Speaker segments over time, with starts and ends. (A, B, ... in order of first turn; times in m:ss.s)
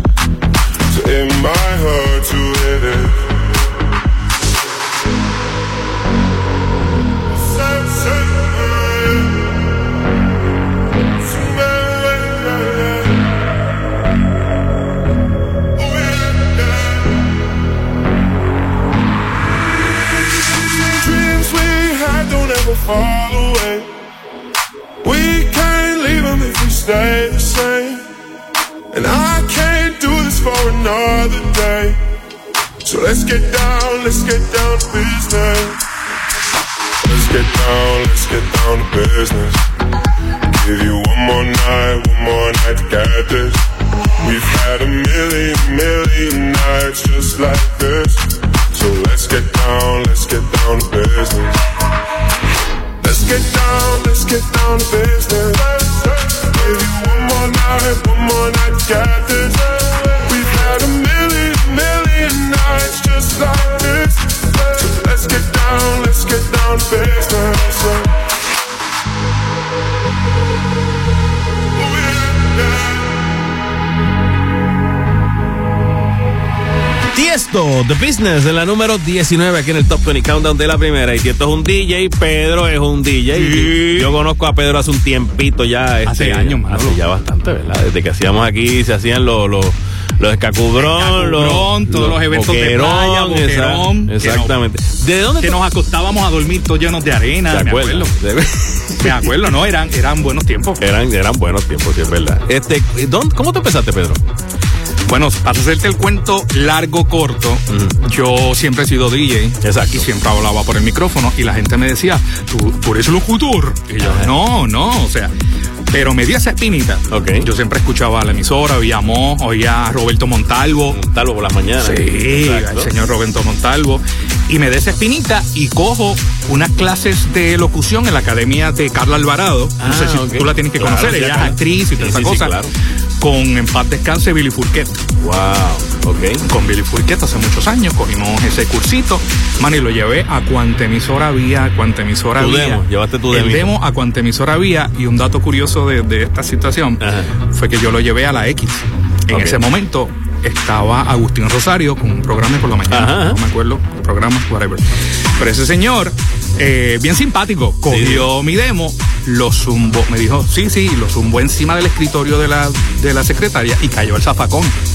0:00.9-0:03.3 A
0:07.4-0:09.4 A
0:11.2-0:13.2 A
0:15.8-0:17.0 A
0:20.6-0:23.9 A
0:25.0-0:28.1 A
0:28.9-0:32.0 A
0:32.8-0:35.8 A
0:37.0-0:39.6 A
0:40.5-0:43.6 A
0:44.2-0:51.6 A
0:53.0-1:08.1 A
1:11.8-1:13.0 A
1:17.1-1:35.6 B
1:23.3-1:24.1 C
1:26.0-1:27.0 C
1:30.8-1:34.5 C
1:35.4-1:38.3 C
1:37.5-1:39.2 B
1:38.9-1:40.8 C
1:40.8-1:44.2 B
1:45.0-1:55.3 C
1:47.7-1:47.9 B
1:49.6-1:50.0 B
1:54.0-1:54.3 B
1:55.9-2:01.0 C
1:57.1-1:57.5 B
2:00.9-2:02.9 B
2:01.8-2:12.6 C
2:09.8-2:12.7 B
2:13.2-2:15.0 C
2:15.2-2:16.4 B
2:16.4-2:34.8 C
2:22.4-2:23.7 B
2:27.0-2:27.3 B
2:29.3-2:29.6 B
2:32.9-2:33.4 B
2:35.4-2:44.8 C
2:37.9-2:38.3 B